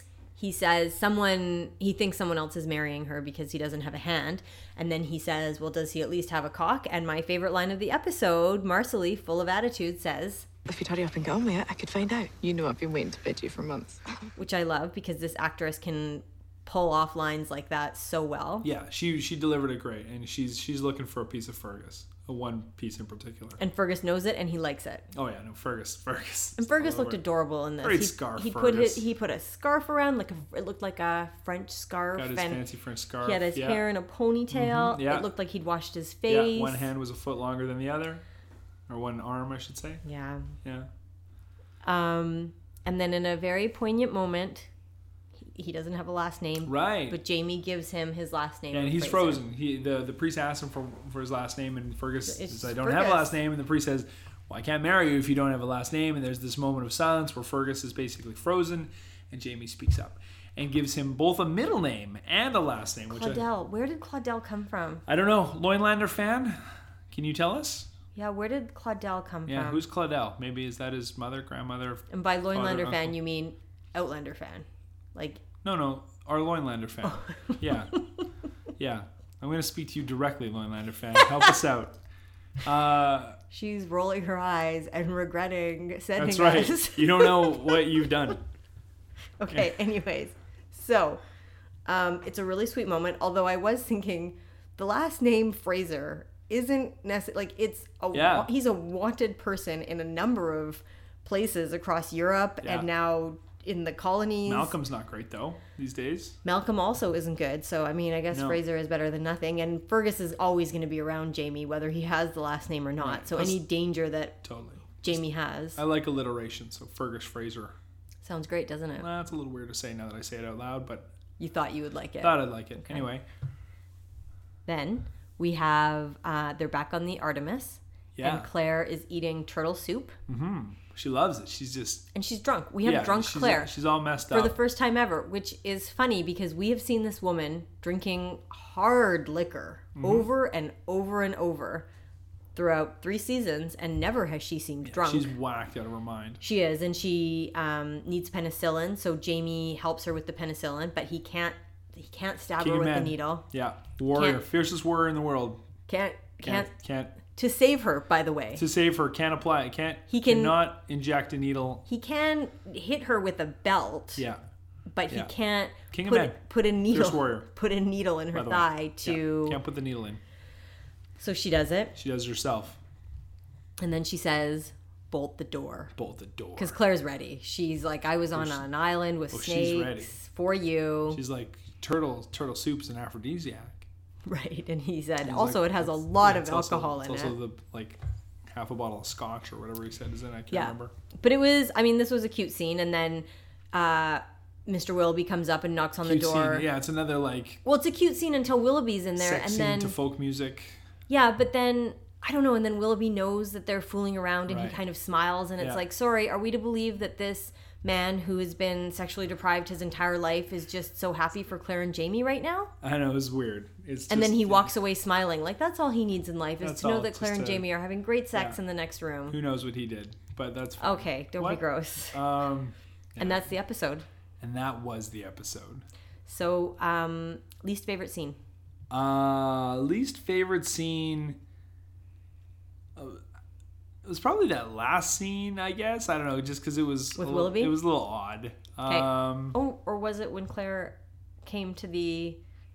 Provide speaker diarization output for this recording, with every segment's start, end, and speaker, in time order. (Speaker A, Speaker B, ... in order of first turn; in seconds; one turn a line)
Speaker A: 0.4-10.5
Speaker B: 10.7-14.3
Speaker A: 14.4-18.7
Speaker C: 18.6-23.6
Speaker A: 23.6-25.1
Speaker C: 25.1-27.2
Speaker A: 26.6-32.6
Speaker C: 27.8-29.1
Speaker C: 32.2-33.8
Speaker A: 33.2-36.9
Speaker C: 34.5-35.3
Speaker C: 36.3-38.2
Speaker C: 38.9-40.0
Speaker A: 40.0-40.6
Speaker C: 40.6-40.9
Speaker A: 41.8-44.7
Speaker A: 45.4-49.4
Speaker C: 46.6-47.2
Speaker C: 48.7-63.4
Speaker A: 52.3-53.3
Speaker A: 63.1-65.0
Speaker C: 65.1-67.9
Speaker A: 68.2-69.8
Speaker C: 69.5-73.2
Speaker A: 72.1-75.4
Speaker C: 75.6-78.0
Speaker A: 77.1-78.0
Speaker C: 78.8-82.0
Speaker C: 82.6-83.4
Speaker A: 83.5-87.8
Speaker C: 86.2-88.4
Speaker A: 89.4-91.2
Speaker A: 91.9-104.7
Speaker C: 98.1-98.5
Speaker C: 102.6-102.9
Speaker C: 104.5-106.4
Speaker A: 106.4-114.4
Speaker C: 108.3-108.6
Speaker C: 113.0-113.6
Speaker C: 114.4-115.2
Speaker A: 115.0-115.8
Speaker C: 115.8-117.8
Speaker A: 118.2-119.1
Speaker C: 119.0-121.1
Speaker A: 121.4-123.0
Speaker C: 122.2-123.3
Speaker A: 124.7-130.2
Speaker C: 128.2-128.5
Speaker C: 130.3-132.1
Speaker A: 132.1-133.7
Speaker C: 132.8-134.6
Speaker A: 134.3-141.9
Speaker C: 139.9-140.3
Speaker A: 142.6-145.3
Speaker C: 144.9-146.4
Speaker A: 146.4-153.5
Speaker C: 152.6-155.6
Speaker A: 154.1-154.4
Speaker A: 155.9-158.6
Speaker C: 156.4-157.2
Speaker C: 158.6-161.9
Speaker A: 160.1-160.6
Speaker A: 161.9-164.2
Speaker C: 164.2-164.4
Speaker A: 164.9-169.6
Speaker C: 165.9-167.5
Speaker C: 168.3-170.2
Speaker A: 171.2-171.9
Speaker C: 172.0-172.8
Speaker A: 173.8-175.9
Speaker C: 176.0-176.8
Speaker A: 176.6-181.2
Speaker C: 178.3-178.7
Speaker C: 179.3-180.2
Speaker C: 181.1-183.9
Speaker A: 184.3-187.3
Speaker C: 185.2-190.9
Speaker A: 190.5-196.7
Speaker C: 196.0-197.6
Speaker A: 197.7-200.0
Speaker C: 199.2-200.8
Speaker A: 201.1-212.7
Speaker C: 204.5-204.8
Speaker C: 212.8-214.7
Speaker A: 214.1-219.4
Speaker C: 216.6-217.7
Speaker C: 218.3-218.6
Speaker C: 219.3-223.5
Speaker A: 220.8-222.2
Speaker A: 223.2-224.1
Speaker C: 224.4-225.8
Speaker A: 226.3-228.4
Speaker C: 228.9-231.4
Speaker C: 233.0-233.2
Speaker C: 234.1-239.6
Speaker A: 237.2-237.7
Speaker A: 238.9-242.4